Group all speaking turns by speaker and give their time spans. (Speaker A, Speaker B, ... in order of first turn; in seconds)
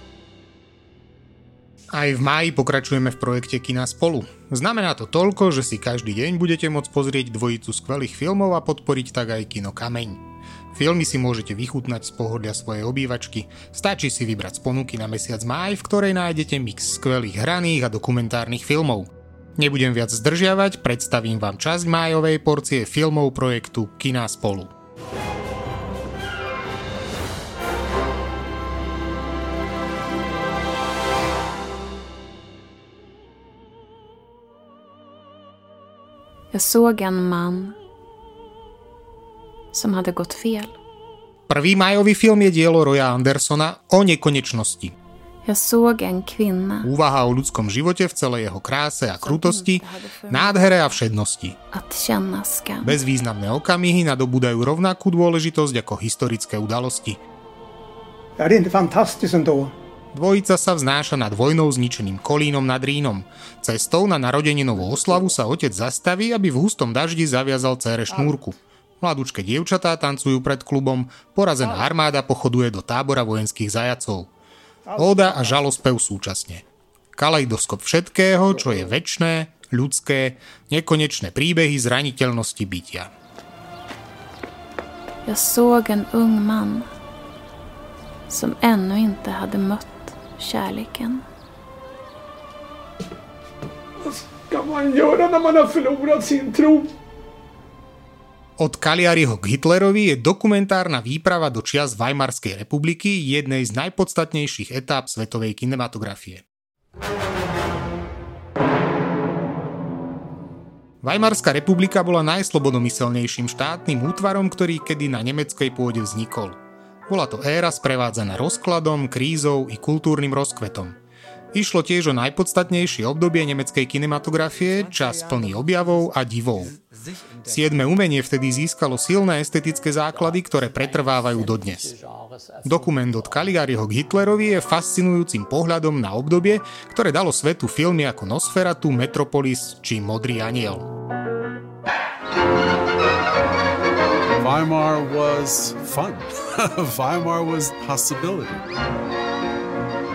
Speaker A: 1.9-10.2, 10.7-24.7, 41.5-44.9, 46.8-51.6, 52.8-57.2, 60.1-74.3, 74.9-76.6, 77.2-83.1, 98.6-106.4, 111.0-116.6, 117.1-121.0, 121.5-126.7, 127.4-131.9, 132.6-140.9
Speaker B: 36.5-37.8, 39.7-40.7, 45.4-46.9, 49.2-50.9, 51.7-53.0, 85.2-86.9, 88.3-91.2
Speaker C: 58.4-59.7, 94.0-96.9
Speaker D: 144.3-148.6